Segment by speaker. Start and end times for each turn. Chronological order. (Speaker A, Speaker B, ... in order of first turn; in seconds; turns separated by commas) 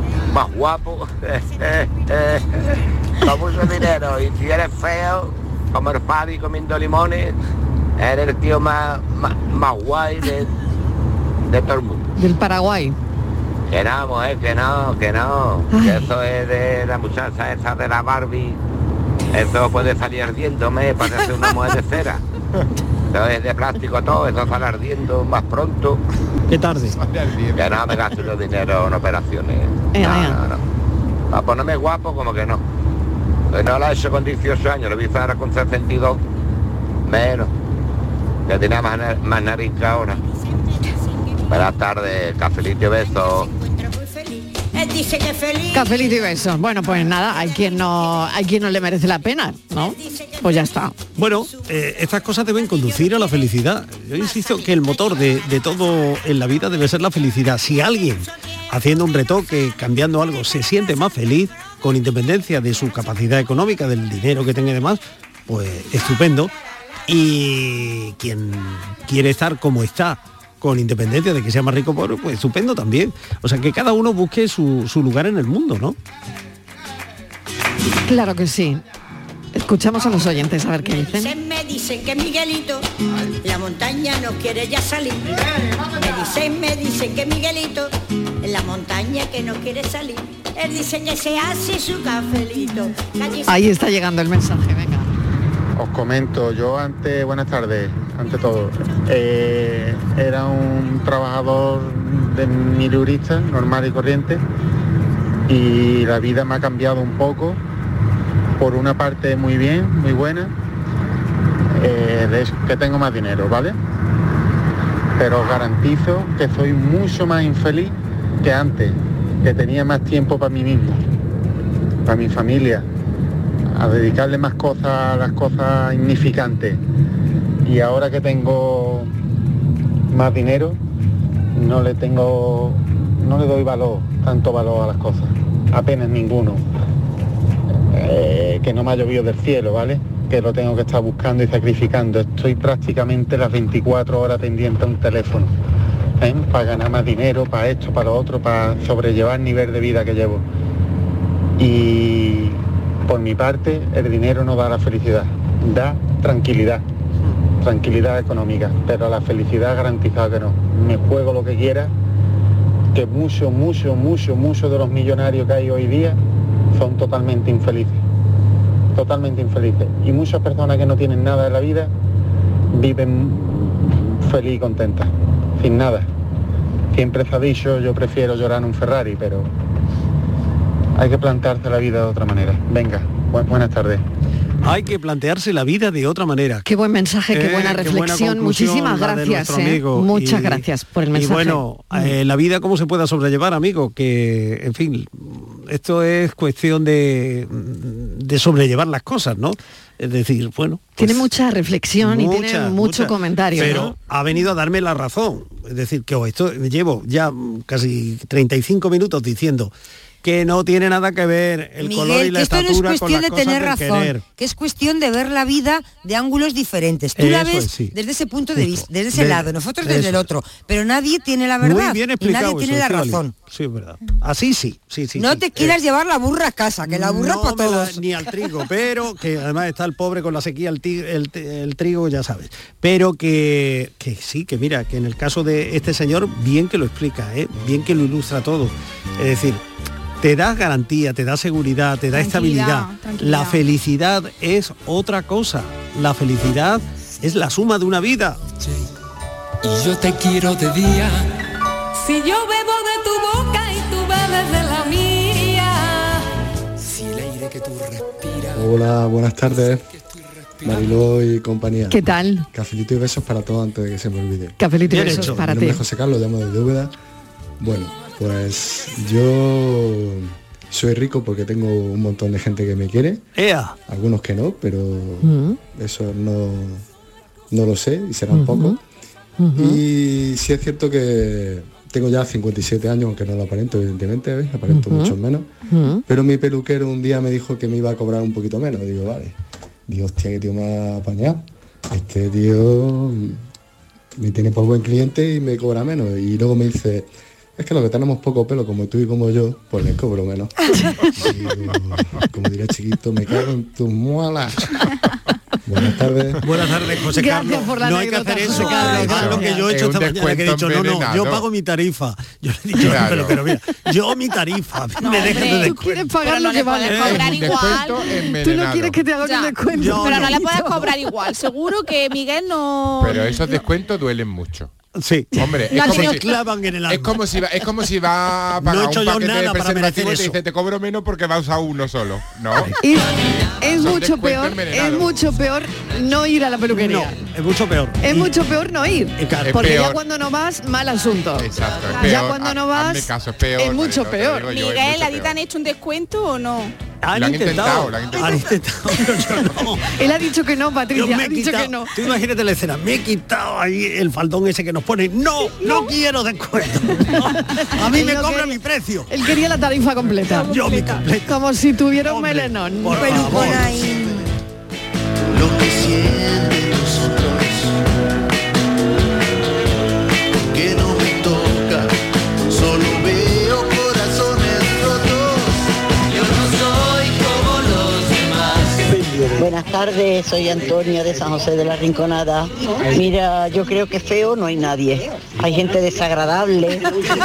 Speaker A: 0.3-2.7, Speaker A: 3.2-7.3, Speaker A: 8.0-10.5, Speaker A: 11.5-12.1, Speaker B: 12.2-12.9, Speaker A: 13.7-18.6, Speaker B: 15.7-16.1, Speaker A: 19.3-22.2, Speaker A: 23.1-26.0, Speaker C: 26.5-27.0, Speaker D: 26.9-28.0, Speaker A: 27.6-30.6, Speaker B: 29.9-30.4, Speaker A: 31.3-32.6, Speaker A: 33.5-36.2, Speaker A: 37.0-37.5, Speaker A: 38.5-40.2, Speaker A: 41.5-43.5, Speaker E: 43.5-46.1, Speaker B: 45.7-50.9, Speaker E: 49.9-50.6, Speaker C: 51.1-66.5, Speaker C: 67.1-76.0, Speaker B: 78.1-78.8, Speaker B: 79.5-81.3, Speaker E: 81.0-82.8, Speaker E: 83.4-87.9, Speaker E: 88.4-93.6, Speaker B: 93.5-95.1, Speaker F: 95.8-104.4, Speaker F: 105.5-107.6, Speaker F: 108.6-110.5, Speaker F: 111.7-113.8, Speaker F: 115.2-121.0, Speaker F: 122.0-122.9, Speaker F: 123.7-126.8, Speaker F: 127.6-129.1, Speaker F: 130.1-130.8, Speaker F: 131.5-136.6, Speaker F: 137.9-145.5, Speaker F: 146.2-150.4, Speaker F: 151.6-156.8, Speaker F: 157.6-161.9, Speaker F: 162.9-166.2, Speaker F: 166.7-168.0, Speaker F: 168.9-171.9, Speaker F: 172.7-176.1, Speaker F: 176.9-179.5, Speaker F: 180.9-184.0, Speaker C: 184.6-186.7, Speaker B: 186.7-192.1, Speaker C: 187.3-201.3, Speaker B: 201.0-203.9, Speaker C: 202.0-214.2, Speaker G: 211.8-223.3, Speaker C: 217.2-217.9, Speaker C: 218.5-220.3, Speaker C: 221.6-225.8, Speaker G: 225.2-228.0, Speaker C: 226.8-239.6, Speaker C: 240.2-248.4, Speaker H: 242.1-243.6, Speaker I: 251.9-256.2, Speaker J: 258.5-259.8, Speaker J: 260.6-266.9, Speaker B: 261.9-262.4, Speaker B: 264.6-265.8, Speaker C: 264.9-265.4, Speaker J: 267.6-273.2, Speaker C: 273.4-273.8, Speaker J: 273.9-276.8, Speaker B: 275.2-275.6, Speaker J: 277.5-278.8, Speaker B: 278.3-278.8, Speaker B: 279.4-279.8, Speaker J: 279.6-285.5, Speaker B: 284.7-285.1, Speaker B: 285.7-286.0, Speaker J: 286.1-289.3, Speaker J: 289.9-293.4, Speaker J: 294.2-304.7, Speaker J: 305.6-306.4, Speaker C: 306.4-316.1, Speaker B: 307.1-309.6, Speaker D: 308.7-311.4, Speaker D: 312.8-313.4, Speaker H: 315.0-318.1, Speaker B: 315.1-320.9, Speaker C: 316.9-317.3, Speaker D: 317.0-319.0, Speaker H: 319.2-323.5, Speaker C: 319.7-320.4, Speaker D: 323.0-324.7, Speaker C: 324.9-327.2, Speaker D: 325.3-326.2, Speaker H: 325.8-326.1, Speaker D: 326.9-332.7, Speaker C: 328.6-330.4, Speaker B: 332.8-337.2, Speaker D: 333.7-335.2, Speaker C: 336.7-338.3, Speaker B: 338.0-344.5, Speaker C: 339.2-339.8, Speaker D: 339.4-340.0, Speaker D: 341.4-345.3, Speaker H: 344.5-346.7, Speaker C: 347.0-349.9, Speaker D: 347.1-348.5, Speaker B: 349.9-351.9, Speaker C: 350.9-359.1, Speaker B: 357.9-358.6, Speaker B: 359.1-360.5, Speaker H: 360.2-361.0, Speaker C: 360.4-361.4, Speaker B: 361.3-363.4, Speaker C: 362.0-364.2, Speaker G: 362.9-364.3, Speaker K: 365.3-367.8, Speaker K: 370.5-371.9, Speaker K: 372.5-375.6, Speaker L: 379.4-386.9